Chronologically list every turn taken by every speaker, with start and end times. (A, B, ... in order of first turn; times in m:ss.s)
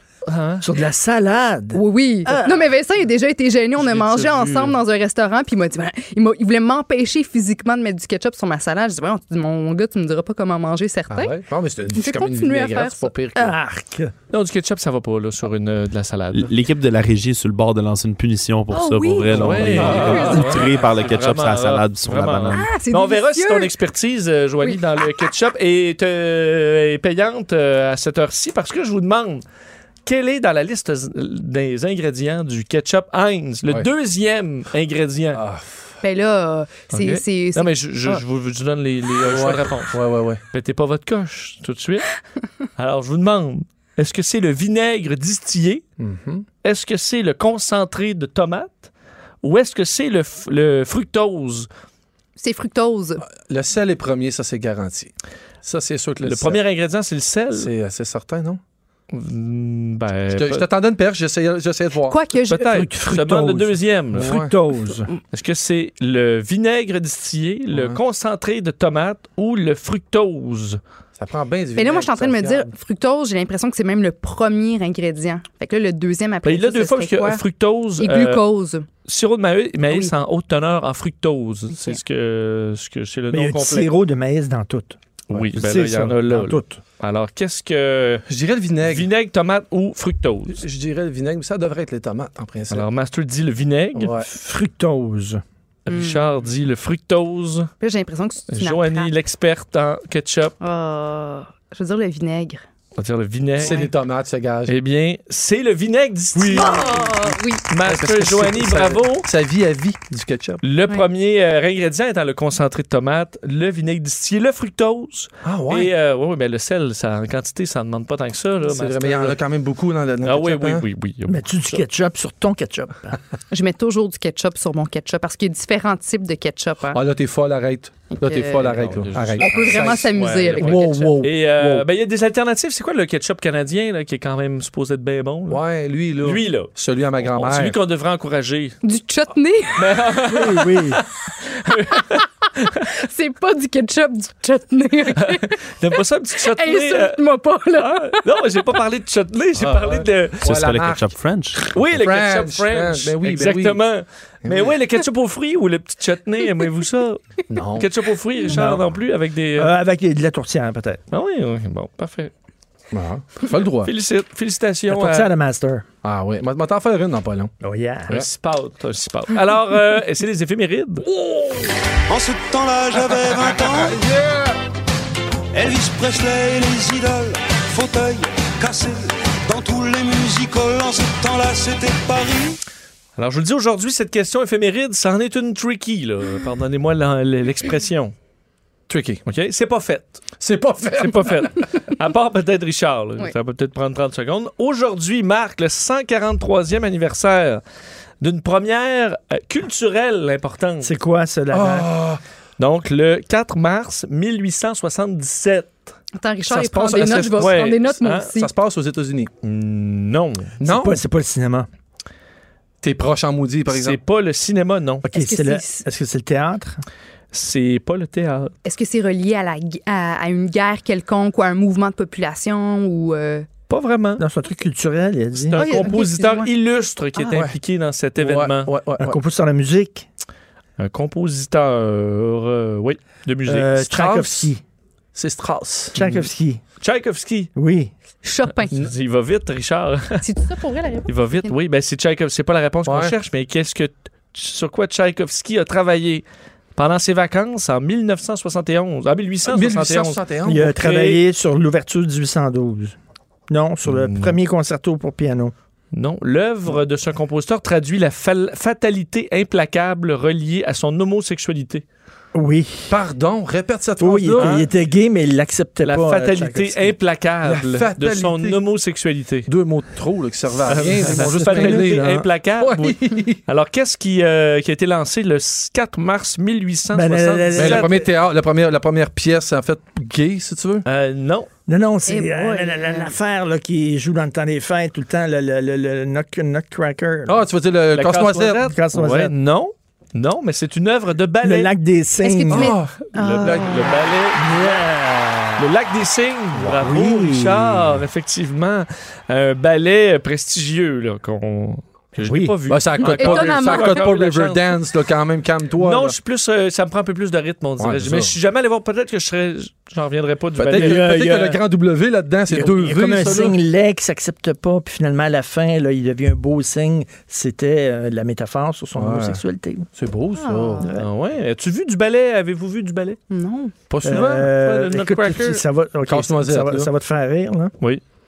0:00.3-0:00.6 A
0:00.6-0:02.6 B
0:01.7-0:11.3 C
0:03.8-0:04.8 A
0:11.1-0:13.6 D
0:11.9-0:13.1 C
0:13.3-0:14.1 B
0:14.3-0:16.5 A
0:16.3-0:22.7 E
0:18.7-0:20.7 C
0:19.3-0:29.4 A
0:22.5-0:23.7 C
0:30.0-0:35.4 A
0:35.3-0:35.9 D
0:36.0-0:38.2 C
0:36.9-0:40.0 A
0:39.2-0:40.4 D
0:40.5-0:42.1 A
0:42.8-0:45.8 A
0:46.0-0:46.4 D
0:46.6-0:48.9 A
0:49.4-0:51.7 A
0:52.4-0:53.2 C
0:53.3-0:55.1 D
0:55.6-0:56.6 D
0:56.2-0:57.7 A
0:57.5-0:58.6 D
0:59.1-1:00.6 A
1:00.3-1:02.2 D
1:02.1-1:02.9 C
1:02.5-1:04.3 A
1:02.6-1:05.1 B
1:04.1-1:04.5 D
1:05.3-1:10.8 A
1:07.7-1:08.0 D
1:11.2-1:12.7 D
1:11.8-1:17.4 C
1:16.4-1:18.4 A
1:18.0-1:18.8 C
1:19.0-1:23.9 A
1:21.7-1:22.0 C
1:23.3-1:26.8 B
1:25.3-1:28.2 A
1:28.3-1:29.1 D
1:28.8-1:30.6 A
1:30.5-1:32.8 D
1:32.7-1:34.1 A
1:33.9-1:34.3 D
1:34.2-1:35.4 B
1:35.8-1:37.7 A
1:35.9-1:36.2 C
1:37.8-1:39.1 C
1:38.5-1:40.6 A
1:40.6-1:42.6 C
1:43.0-1:43.8 A
1:43.6-1:44.7 D
1:44.7-1:47.1 A
1:46.3-1:47.2 D
1:46.5-1:47.6 C
1:47.7-1:49.3 A
1:47.8-1:50.6 D
1:50.6-1:59.4 A
1:55.4-1:55.9 D
1:58.6-2:00.8 D
2:00.2-2:01.8 A
2:01.3-2:03.2 B
2:03.5-2:07.0 C
2:06.9-2:11.8 D
2:08.1-2:08.8 C
2:08.6-2:15.6 A
2:09.4-2:11.2 C
2:15.5-2:17.8 D
2:16.2-2:18.8 A
2:18.8-2:20.1 C
2:19.8-2:22.7 A
2:20.3-2:21.0 B
2:22.9-2:25.6 C
2:25.2-2:27.2 A
2:26.5-2:28.2 C
2:27.8-2:30.4 A
2:29.6-2:33.8 D
2:30.4-2:31.8 E
2:31.7-2:37.2 A
2:34.4-2:34.7 D
2:37.5-2:37.9 D
2:37.8-2:39.7 A
2:38.5-2:38.9 B
2:39.6-2:41.0 B
2:41.1-2:42.3 A
2:42.9-2:43.9 D
2:43.8-2:45.3 A
2:44.9-2:45.8 B
2:46.0-2:47.5 D
2:47.6-2:48.2 B
2:48.1-2:51.1 A
2:51.2-2:51.6 D
2:52.1-2:54.0 F
2:54.0-2:54.5 D
2:55.5-3:02.6 F
3:03.2-3:08.1 A
3:08.9-3:09.2 D
3:09.2-3:10.3 A
3:10.4-3:11.6 D
3:11.0-3:17.6 A
3:18.2-3:20.9 A
3:20.8-3:21.9 B
3:21.5-3:22.2 D
3:22.6-3:25.9 A
3:26.1-3:28.5 C
3:26.5-3:27.7 D
3:27.0-3:28.3 A
3:28.3-3:29.3 D
3:29.4-3:30.5 A
3:30.6-3:31.0 D
3:30.6-3:31.7 B
3:32.8-3:34.0 D
3:33.7-3:35.0 A
3:35.0-3:36.8 B
3:35.1-3:35.8 C
3:37.3-3:38.5 A
3:38.6-3:43.5 C
3:43.7-3:44.2 A
3:44.2-3:45.9 B
3:45.4-3:48.7 A
3:45.5-3:46.5 C
3:48.2-3:49.2 D
3:49.0-3:50.1 B
3:50.8-3:53.8 A
3:53.4-3:54.6 B
3:53.8-3:54.5 D
3:55.1-3:56.0 D
3:55.9-3:56.6 B
3:56.0-3:56.2 A
3:56.8-3:57.5 A
3:57.6-3:57.9 B
3:58.2-3:58.7 C
3:58.7-4:00.2 A
4:00.2-4:01.5 C
4:01.1-4:06.2 A
4:02.8-4:03.1 D
4:06.8-4:11.2 A
4:09.4-4:10.7 D
4:10.4-4:13.0 B
4:13.5-4:15.5 B
4:13.9-4:14.3 A
4:15.9-4:21.8 A
4:22.3-4:23.0 B
4:22.9-4:24.6 D
4:24.0-4:27.0 B
4:24.4-4:24.7 A
4:25.8-4:29.5 A
4:27.4-4:28.6 D
4:29.5-4:33.4 D
4:30.6-4:37.9 A
4:30.7-4:32.0 B
4:36.9-4:38.1 B
4:37.6-4:40.8 D
4:40.8-4:41.5 A
4:41.7-4:47.4 B
4:42.1-4:43.1 C
4:47.2-4:48.7 D
4:47.9-4:51.7 A
4:48.6-4:49.3 B
4:51.4-4:52.8 B
4:52.2-4:54.0 C
4:52.5-4:53.9 D
4:53.1-4:54.8 A
4:54.3-4:55.7 B
4:55.6-5:04.8 A
4:56.5-4:56.9 D
4:56.7-4:58.0 B
5:02.2-5:02.6 B
5:02.7-5:06.1 D
5:03.1-5:04.1 C
5:05.8-5:11.1 A
5:07.8-5:08.3 D
5:10.6-5:13.6 D
5:10.7-5:11.6 B
5:12.5-5:19.9 B
5:19.0-5:19.4 D
5:20.0-5:20.9 D
5:20.4-5:20.9 C
5:20.9-5:23.2 A
5:23.3-5:23.7 C
5:23.9-5:25.5 D
5:24.0-5:27.7 B
5:24.1-5:25.6 A
5:26.0-5:26.9 D